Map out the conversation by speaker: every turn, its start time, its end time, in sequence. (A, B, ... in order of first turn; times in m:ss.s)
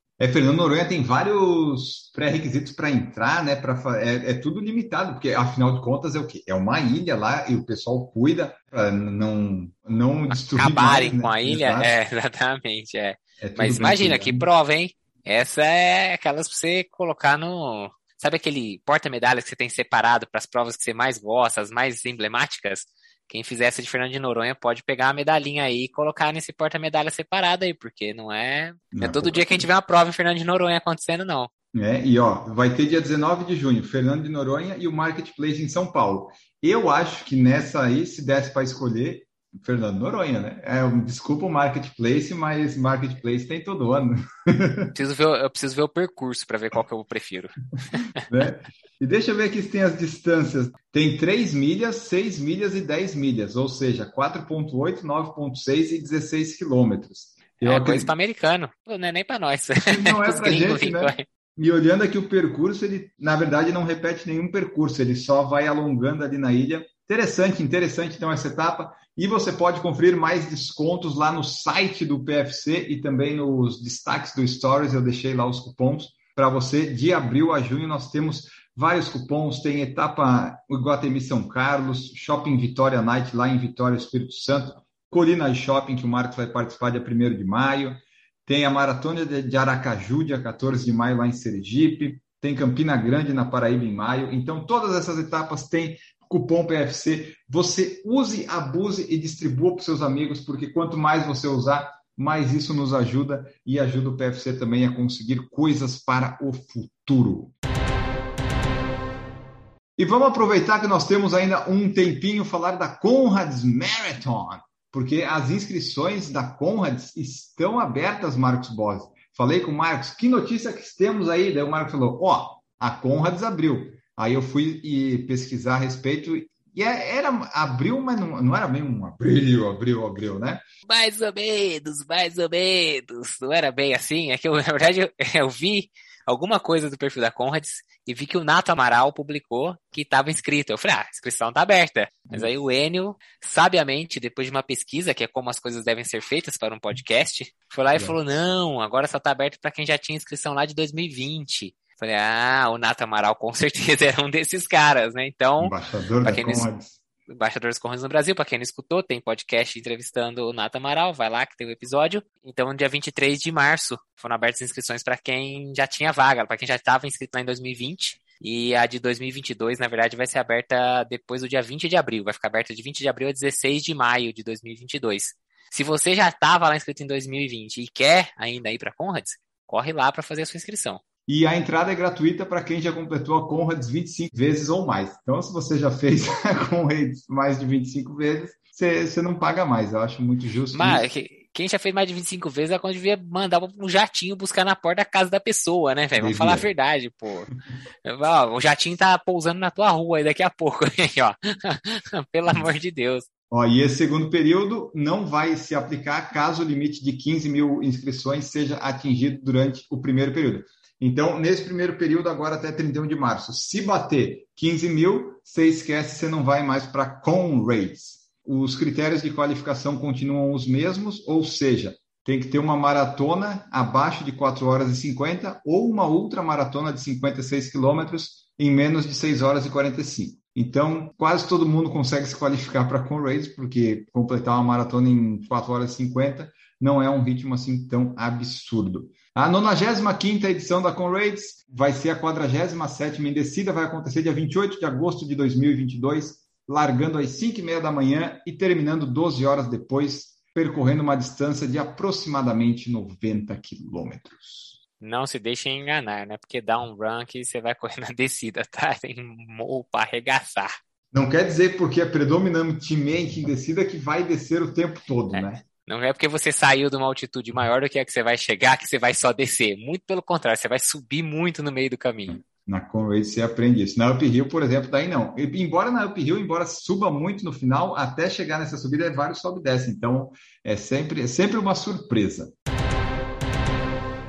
0:00.2-0:11.9 A
0:10.3-0:31.5 B
0:13.4-0:14.5 A
0:28.9-0:29.6 A
0:31.7-0:44.9 A
0:44.9-0:48.0 B
0:48.3-0:58.1 A
0:57.6-1:01.2 B
0:59.9-1:47.5 A
1:50.0-2:10.6 A
2:10.9-2:36.7 B
2:35.6-2:37.0 A
2:37.3-3:01.0 B
3:01.3-3:11.1 A
3:10.7-3:17.5 B
3:16.2-3:16.7 A
3:18.0-3:23.3 B
3:23.5-4:14.8 A
4:15.0-4:20.7 B
4:21.1-4:25.6 A
4:25.3-4:32.4 B
4:32.4-4:42.6 A